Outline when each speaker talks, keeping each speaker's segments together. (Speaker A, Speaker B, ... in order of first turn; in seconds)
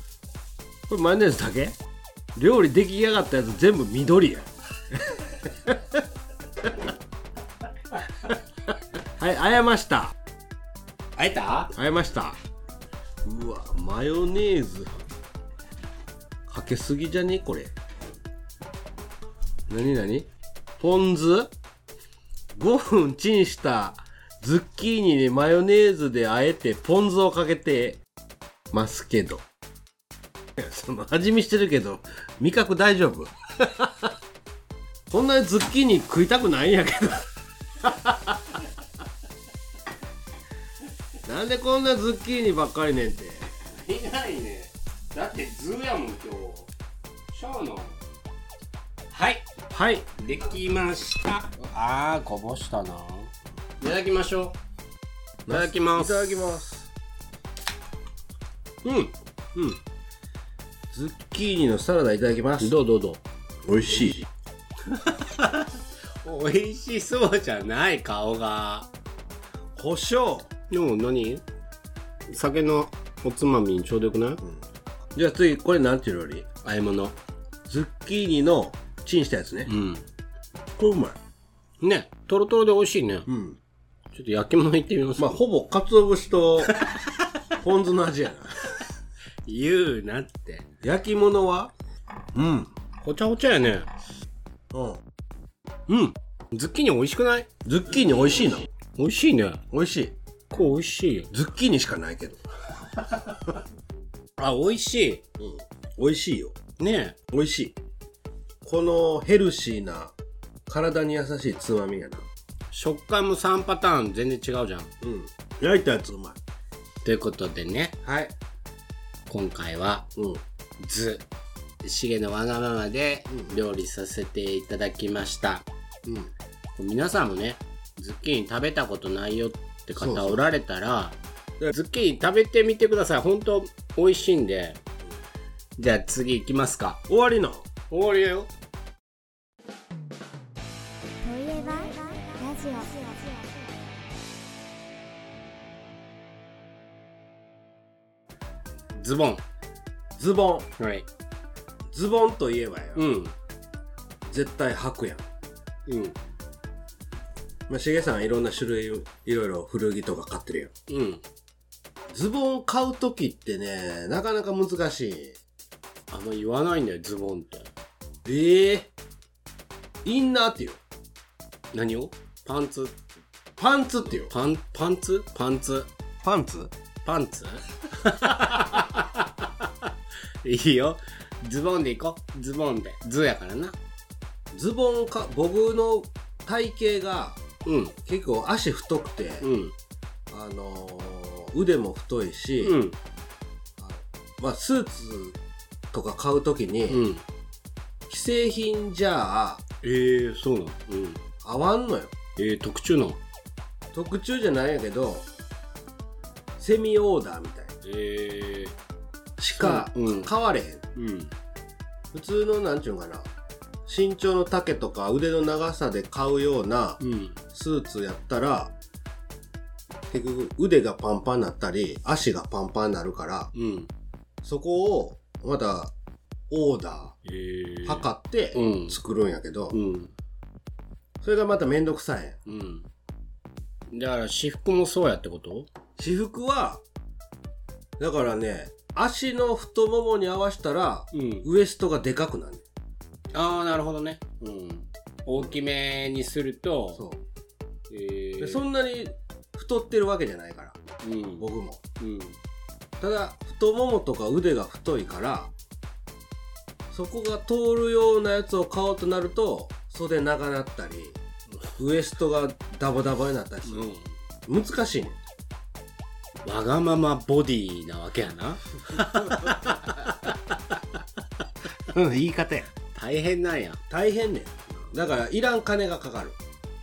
Speaker A: 0.9-1.8, 2.4-6.0, 9.2-10.2, 11.7-12.4, 13.2-15.0, 16.5-17.7, 19.7-20.3, 20.8-21.5, 22.5-28.0, 28.7-29.4, 30.6-34.1, 35.1-38.6, 41.2-43.5, 49.7-50.1, 55.5-56.9, 60.9-62.8, 63.6-64.3, 69.8-70.5, 75.1-76.5, 77.7-79.7, 80.8-81.2, 83.3-83.6, 85.2-86.8, 87.5-88.7, 90.8-91.7, 92.3-92.7, 94.7-95.0, 97.7-98.7, 99.7-100.2, 101.3-102.4, 105.4-106.6, 107.3-107.8, 108.6-110.1, 110.7-112.3, 115.0-116.4, 118.0-118.3, 120.2-120.4, 126.0-126.3, 130.0-130.5, 137.1-137.7, 150.2-150.7, 151.9-153.1, 154.3-155.2, 157.7-160.7, 162.1-165.4, 168.2-168.9, 170.0-170.8, 173.6-174.3, 176.2-176.7, 184.5-187.4, 188.1-189.5, 190.3-192.8, 193.8-195.4, 195.9-197.1, 198.1-199.6, 201.4-202.1, 203.9-205.3, 206.6-207.8, 209.4-210.8, 212.1-213.3, 213.9-217.0, 217.5-218.7, 220.1-223.5, 224.4-225.9, 226.5-227.2, 227.8-229.8, 231.2-232.4, 236.0-236.8, 238.0-242.6, 248.4-250.8, 251.4-251.8, 253.0-255.5, 256.9-261.2, 261.8-263.9, 264.5-265.2, 268.9-270.1, 271.9-272.7, 273.9-276.4
Speaker B: 11.2-11.7, 43.7-46.7, 47.3-48.0, 49.1-49.5, 50.2-54.6, 55.5-56.4, 58.8-59.7, 62.6-63.2, 64.9-65.7, 66.2-68.9, 70.7-71.4, 72.3-74.4, 76.6-77.2, 79.7-80.0, 81.8-83.3, 84.1-85.4, 89.5-90.7, 93.0-93.9, 95.9-97.5, 99.0-99.6, 100.5-101.3, 104.4-105.2, 106.8-107.2, 112.7-114.9, 117.0-118.0, 119.3-120.1, 120.8-121.3, 121.8-125.7, 126.8-131.2, 131.7-134.8, 135.8-137.0, 137.9-138.5, 148.9-149.4, 150.8-151.1, 152.9-153.3, 155.9-156.2, 160.9-161.2, 166.1-167.7, 171.7-173.0, 174.1-175.9, 177.1-179.9, 180.4-183.8, 187.7-188.0, 189.4-189.7, 192.6-193.0, 196.9-197.2, 199.8-201.2, 202.4-203.2, 207.8-208.8, 209.6-210.3, 210.9-211.3, 217.0-217.4, 223.5-223.9, 227.2-229.0, 229.7-230.1, 232.5-232.9, 233.9-235.7, 241.1-241.5, 243.3-247.0, 247.9-248.7, 251.0-251.5, 252.0-252.4, 263.7-264.1, 266.4-270.4, 272.9-273.8
Speaker C: 141.2-143.7